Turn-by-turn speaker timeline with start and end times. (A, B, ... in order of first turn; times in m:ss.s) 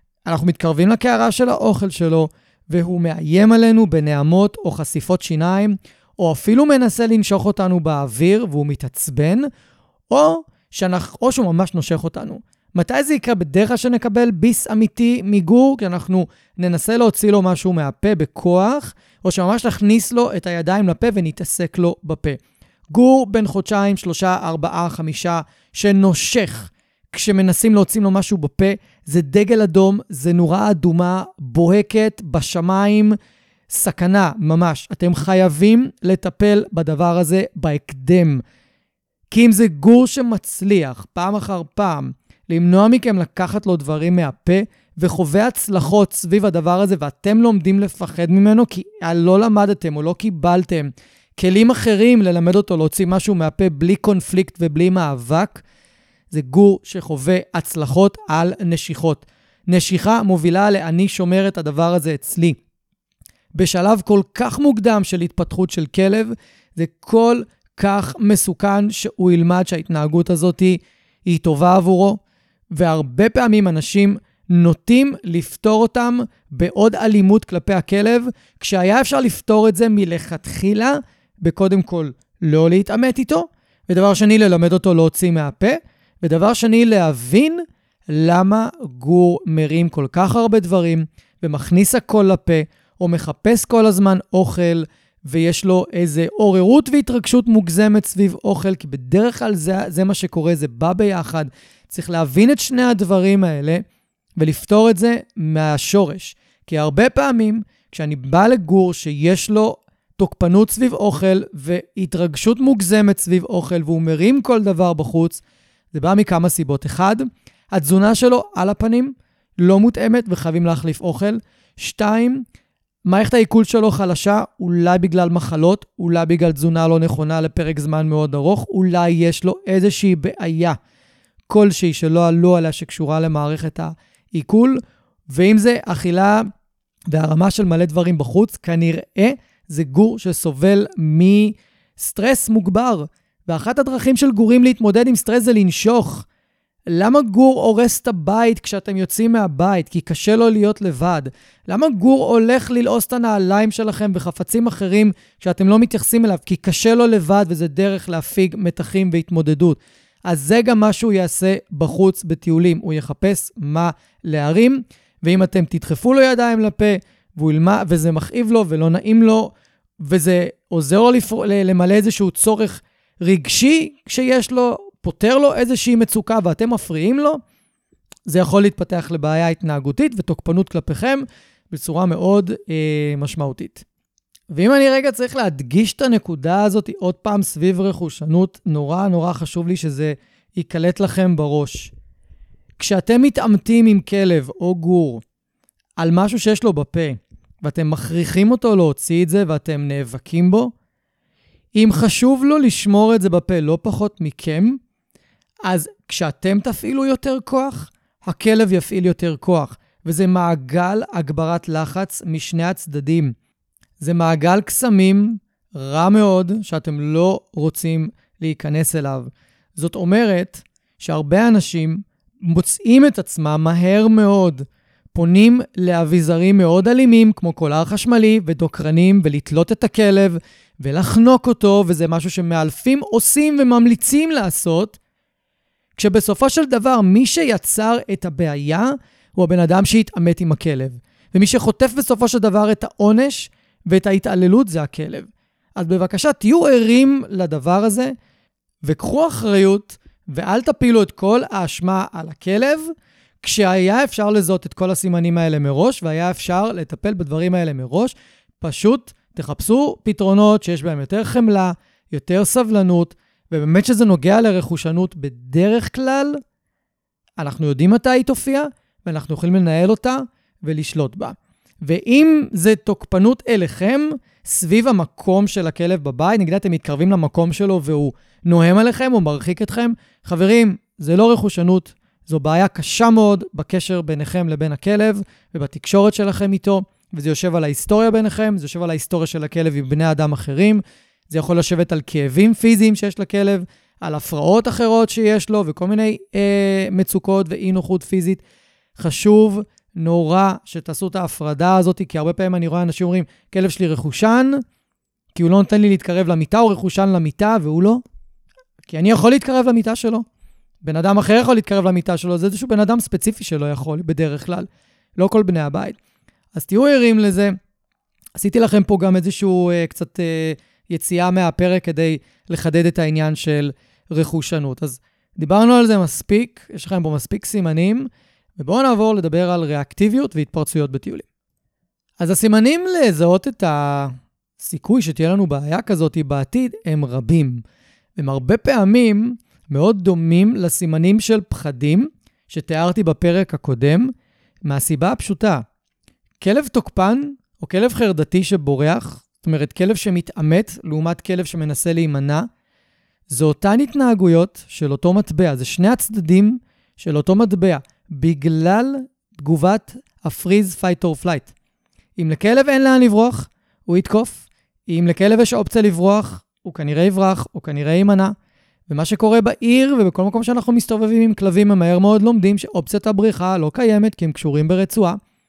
0:00.2-0:09.5 A
0:10.1-0:22.4 A
0:22.9-0:33.2 A
0:33.7-0:38.4 A
0:39.3-0:55.6 A
0:56.3-1:02.6 A
1:03.5-1:12.2 A
1:12.7-1:43.8 A
1:44.4-2:02.4 A
2:03.0-2:10.8 A
2:11.5-2:16.4 A
2:17.1-2:26.2 A
2:26.9-2:57.4 A
2:58.3-3:03.8 A
3:04.5-3:11.9 A
3:12.8-3:15.2 A
3:16.0-3:20.7 A
3:21.7-3:24.8 A
3:25.6-3:33.3 A
3:34.0-3:55.0 A
3:56.0-4:08.1 A
4:08.8-4:12.9 A
4:13.4-4:26.4 A
4:27.4-4:58.4 A
4:59.0-5:04.6 A
5:05.3-5:08.0 A
5:08.8-5:10.2 A
5:10.8-5:16.0 A
5:16.5-5:17.5 A
5:18.4-5:31.2 A
5:32.2-5:37.6 A
5:38.2-5:44.1 A
5:44.6-5:45.6 A
5:46.4-5:52.5 A
5:53.3-6:01.5 A
6:02.2-6:08.3 A
6:08.9-6:15.2 A